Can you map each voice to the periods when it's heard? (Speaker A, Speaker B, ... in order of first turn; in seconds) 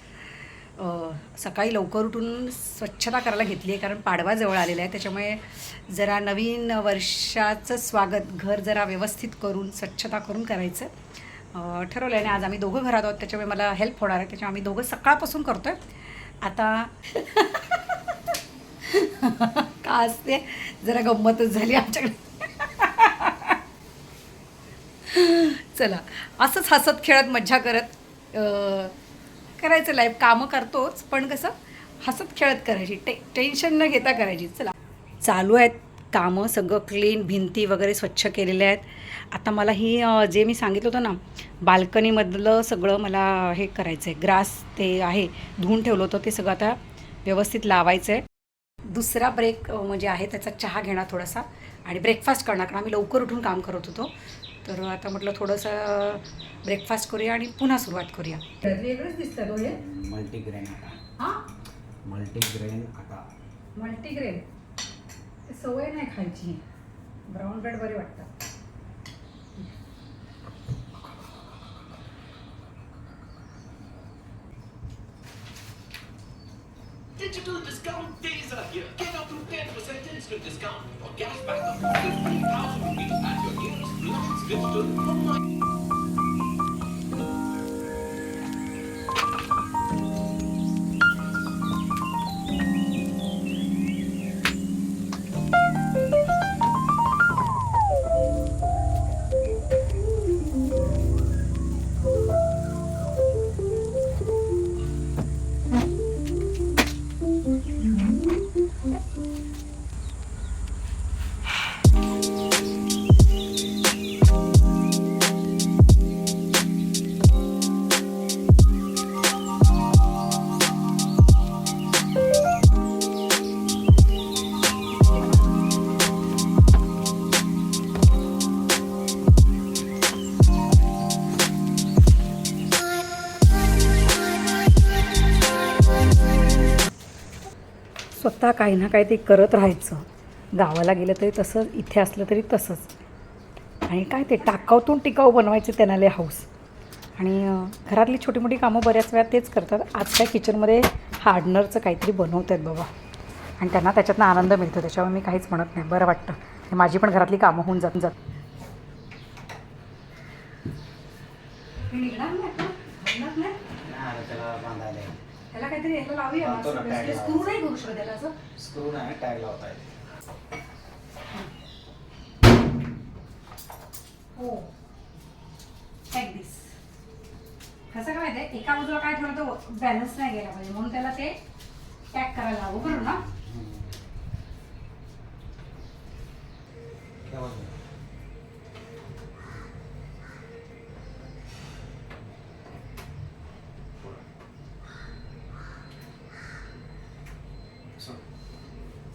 Speaker A: 0.8-23.6, 25.1-28.9, 29.6-48.2, 48.9-54.1, 54.6-59.8, 61.2-61.4, 63.7-64.5, 65.5-66.6, 67.3-68.3, 138.1-142.9, 143.8-146.5, 147.2-152.9, 153.6-158.2, 161.9-163.6, 165.5-168.4, 174.3-174.7, 176.1-176.7, 177.9-181.4, 182.1-183.2
Speaker B: 59.6-61.0, 62.0-63.2, 163.8-165.2, 166.4-167.5, 168.5-169.9, 182.9-183.9, 187.2-187.7, 198.0-198.2
Speaker C: 77.2-85.3